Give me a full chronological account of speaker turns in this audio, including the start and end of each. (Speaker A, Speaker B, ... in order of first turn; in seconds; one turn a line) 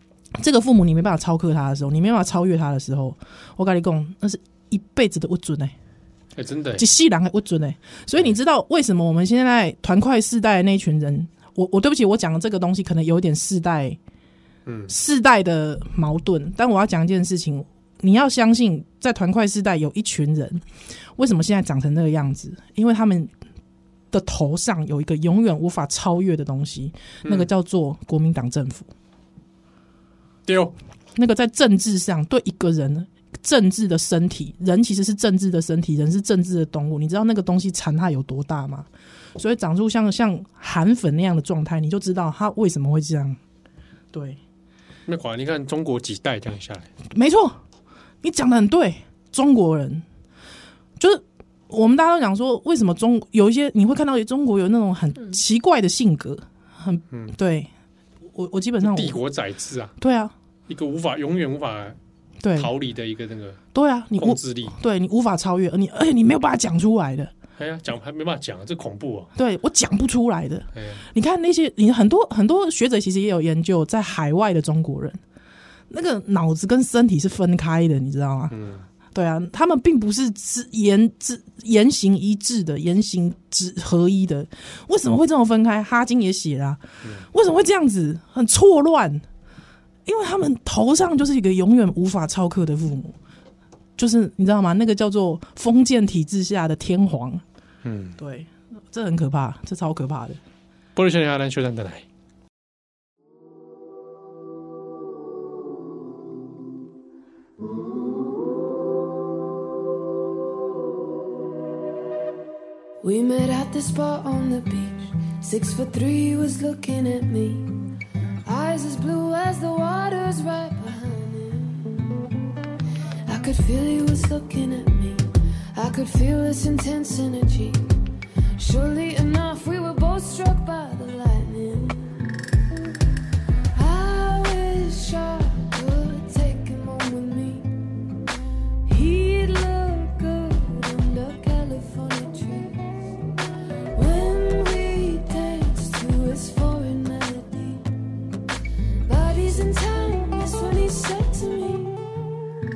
Speaker A: 0.3-5.7
Speaker B: 6.3-6.8
Speaker A: 6.8-14.0
Speaker B: 14.7-14.9
Speaker A: 14.9-20.6
Speaker A: 21.2-23.3
Speaker A: 24.1-28.9
Speaker B: 27.2-27.5
Speaker B: 30.4-30.7
Speaker A: 31.1-43.4
Speaker A: 44.1-44.4
Speaker B: 45.1-46.9
Speaker A: 47.1-47.6
Speaker A: 48.2-50.0
Speaker A: 51.0-57.7
Speaker A: 58.3-59.2
Speaker B: 58.8-60.0
Speaker A: 60.0-60.3
Speaker B: 60.7-62.0
Speaker A: 62.4-62.7
Speaker B: 62.5-63.6
Speaker A: 63.7-67.3
Speaker B: 64.2-64.8
Speaker B: 67.6-69.3
Speaker A: 69.3-75.2
Speaker B: 70.7-71.0
Speaker A: 75.9-78.5
Speaker B: 78.5-78.8
Speaker A: 79.1-89.2
Speaker A: 90.0-93.2
Speaker A: 94.0-97.4
Speaker B: 97.8-98.2
Speaker A: 98.2-100.4
Speaker B: 100.9-102.0
Speaker C: 113.0-117.8
Speaker C: 118.4-122.1
Speaker C: 123.2-127.9
Speaker C: 128.6-132.4
Speaker C: 133.7-137.7
Speaker C: 138.8-143.0
Speaker C: 143.9-147.9
Speaker C: 149.0-152.0